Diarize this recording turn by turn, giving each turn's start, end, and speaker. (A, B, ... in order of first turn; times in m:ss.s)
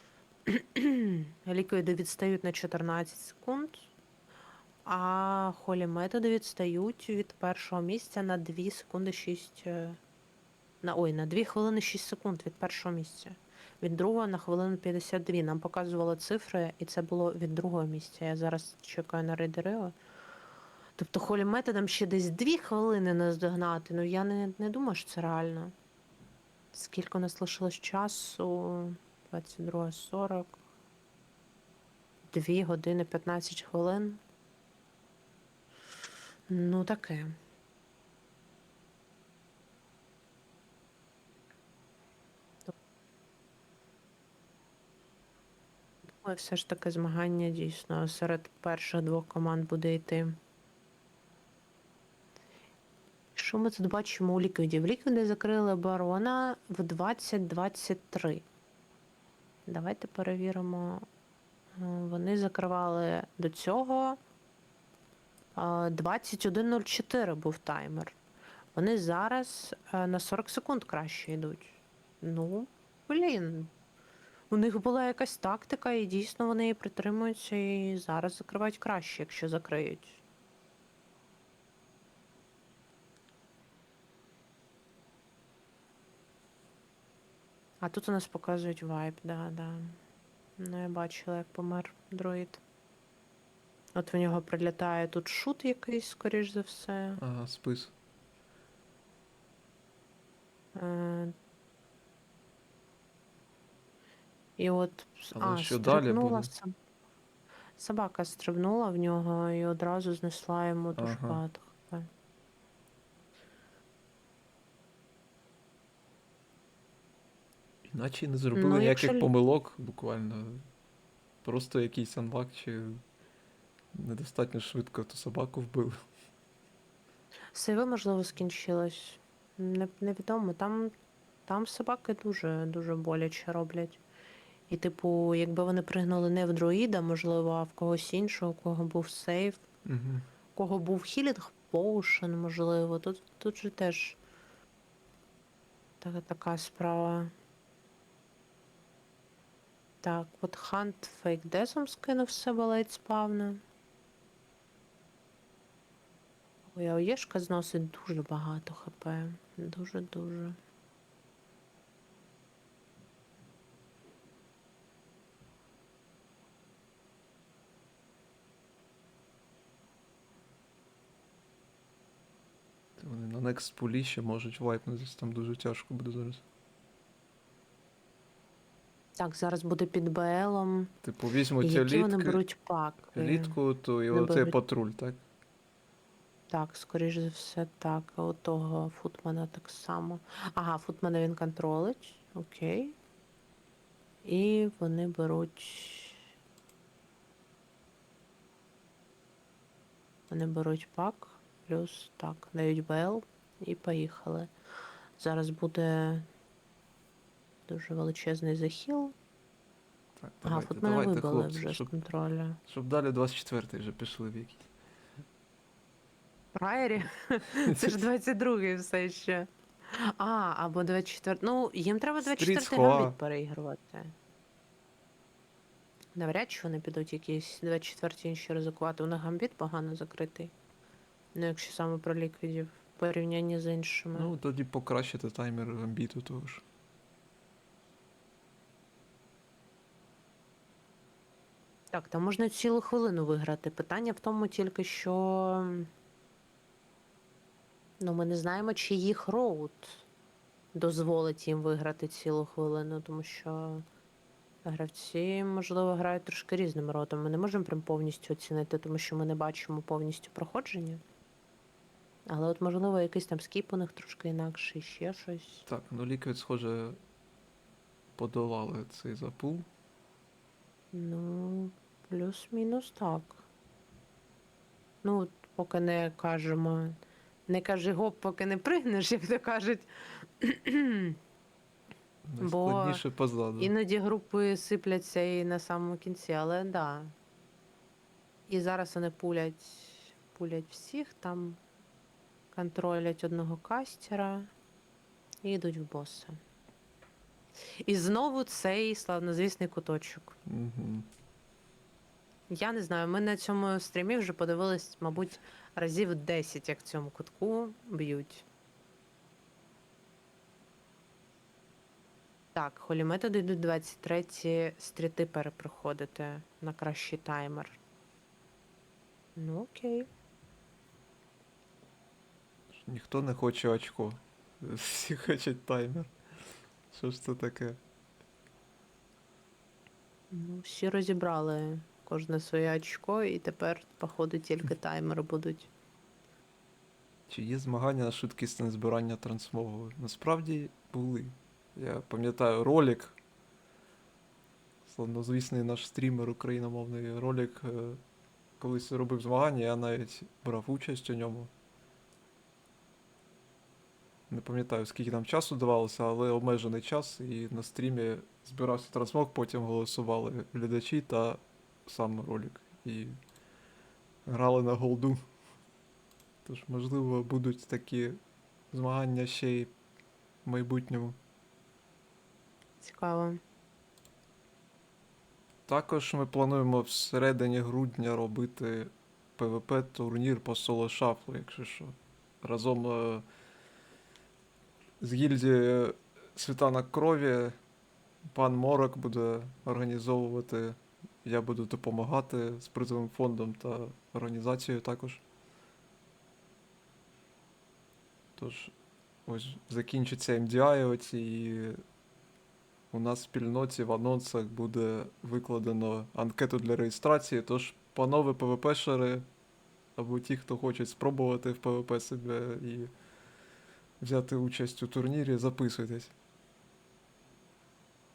0:00.4-0:03.9 A
0:04.8-0:10.0 A
0:10.8-0:19.9 A
0:21.0-0:25.7 A
0:26.7-0:30.6 A
0:32.3-0:34.2 A
0:36.5-0:37.3 A
0:46.1-0:50.4 A
0:53.3-0:58.4 A
0:59.7-1:01.0 A
1:01.8-1:04.2 A
1:05.5-1:08.2 A
1:08.7-1:13.7 A
1:14.5-1:20.2 A
1:27.8-1:30.0 A
1:30.6-1:32.6 A
1:33.9-1:37.2 A
1:37.2-1:37.9 B
1:40.7-1:41.3 A
1:44.6-1:46.7 A
1:45.3-1:46.5 B
1:47.8-1:52.1 A
1:51.0-1:51.4 B
1:57.9-2:00.6 B
1:58.5-1:59.3 A
2:01.4-2:03.0 B
2:03.9-2:06.0 B
2:07.5-2:10.9 A
2:11.5-2:14.0 A
2:14.7-2:19.6 A
2:19.8-2:20.2 B
2:20.6-2:24.2 A
2:26.0-2:27.3 A
2:30.0-2:33.6 A
2:36.7-2:40.6 A
2:53.0-2:56.4 B
2:59.2-3:00.9 A
3:01.0-3:02.4 B
3:01.6-3:03.6 A
3:03.1-3:05.2 B
3:04.1-3:04.6 A
3:06.5-3:13.0 A
3:14.2-3:16.2 A
3:20.3-3:24.5 A
3:25.2-3:26.3 A
3:27.7-3:29.1 A
3:30.2-3:31.9 B
3:30.4-3:32.6 A
3:32.6-3:34.7 B
3:36.5-3:44.1 A
3:42.2-3:43.1 B
3:46.1-3:50.5 A
3:51.3-3:54.3 A
3:54.1-3:56.6 B
4:01.9-4:05.9 A
4:08.0-4:10.0 A
4:10.7-4:13.8 A
4:14.6-4:21.0 A
4:22.3-4:25.6 A
4:25.6-4:27.0 B
4:28.2-4:29.6 B
4:30.9-4:33.4 A
4:35.0-4:37.0 A
4:37.5-4:41.2 A
4:42.3-4:43.7 B
4:42.4-4:43.0 A
4:43.6-4:47.1 A
4:48.5-4:51.6 A
4:52.5-4:54.5 A
4:55.4-4:56.4 A
4:57.8-5:00.4 A
5:00.4-5:01.1 B
5:02.5-5:08.4 A
5:12.5-5:17.8 A
5:19.4-5:20.1 A
5:22.8-5:26.1 B
5:26.9-5:27.8 B
5:30.3-5:35.7 A
5:37.3-5:43.2 B
5:44.8-5:48.0 B
5:48.6-5:51.5 B
5:54.3-6:03.2 B
6:04.2-6:05.2 B
6:06.4-6:08.2 B
6:08.7-6:09.7 B
6:10.4-6:11.2 B
6:12.8-6:13.4 A
6:15.7-6:23.2 B
6:25.0-6:27.6 B
6:28.3-6:35.2 B
6:38.4-6:38.7 B
6:39.2-6:41.8 B
6:42.9-6:49.2 B
6:50.0-6:52.9 B
6:54.0-6:56.1 B